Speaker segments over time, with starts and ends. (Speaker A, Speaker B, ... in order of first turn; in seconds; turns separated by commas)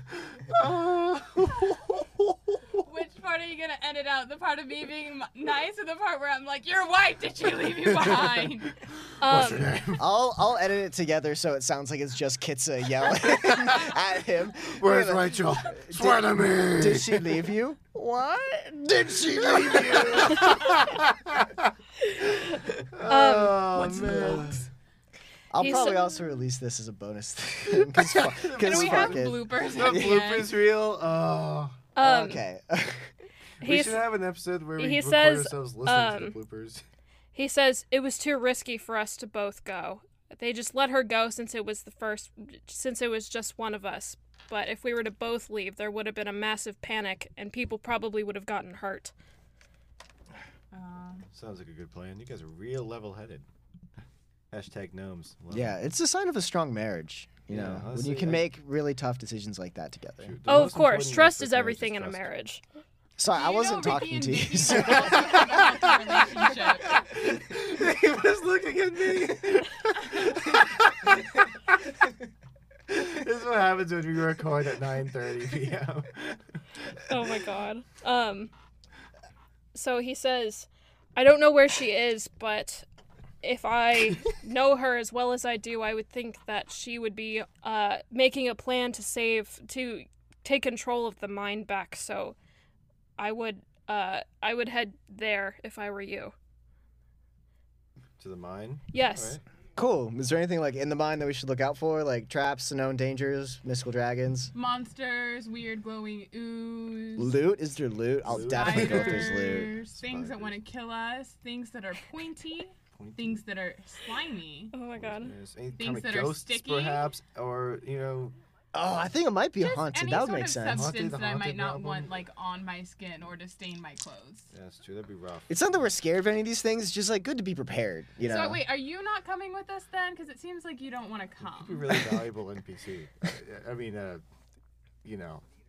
Speaker A: 0.3-2.8, Speaker B: 2.9-8.8, Speaker A: 7.8-8.7, Speaker C: 9.2-9.7, Speaker A: 9.2-10.1, Speaker D: 10.0-20.8, Speaker A: 13.3-13.9, Speaker A: 14.8-17.4, Speaker A: 19.4-21.7, Speaker C: 22.0-24.4, Speaker A: 22.9-24.7, Speaker D: 25.5-30.2, Speaker C: 25.6-26.4, Speaker A: 27.7-31.8, Speaker B: 28.6-30.5, Speaker C: 31.9-32.4, Speaker D: 32.0-33.1, Speaker A: 33.6-36.8, Speaker C: 33.6-34.1, Speaker C: 34.8-36.4, Speaker C: 37.4-49.1, Speaker B: 50.7-51.3, Speaker A: 51.3-53.5, Speaker A: 54.5-55.8, Speaker D: 55.5-60.4, Speaker A: 57.5-58.5, Speaker A: 60.2-62.2, Speaker C: 60.5-62.6, Speaker D: 63.2-65.5, Speaker B: 63.3-67.0, Speaker A: 64.7-71.9, Speaker B: 70.1-70.4, Speaker A: 72.9-77.1, Speaker C: 77.1-78.5, Speaker C: 79.7-82.8, Speaker C: 83.4-92.3, Speaker C: 93.2-96.3, Speaker A: 98.2-99.4, Speaker C: 98.9-99.4, Speaker D: 99.8-104.5, Speaker B: 104.5-107.3, Speaker D: 107.2-109.8, Speaker A: 108.3-110.6, Speaker B: 108.3-114.8, Speaker A: 112.9-113.5, Speaker C: 114.7-115.3, Speaker A: 115.0-118.3, Speaker B: 115.8-117.1, Speaker D: 118.7-121.0, Speaker B: 119.6-124.5, Speaker A: 120.7-122.2, Speaker A: 124.5-125.9, Speaker D: 125.5-128.6, Speaker B: 128.2-132.1, Speaker A: 131.5-134.2, Speaker A: 135.0-135.4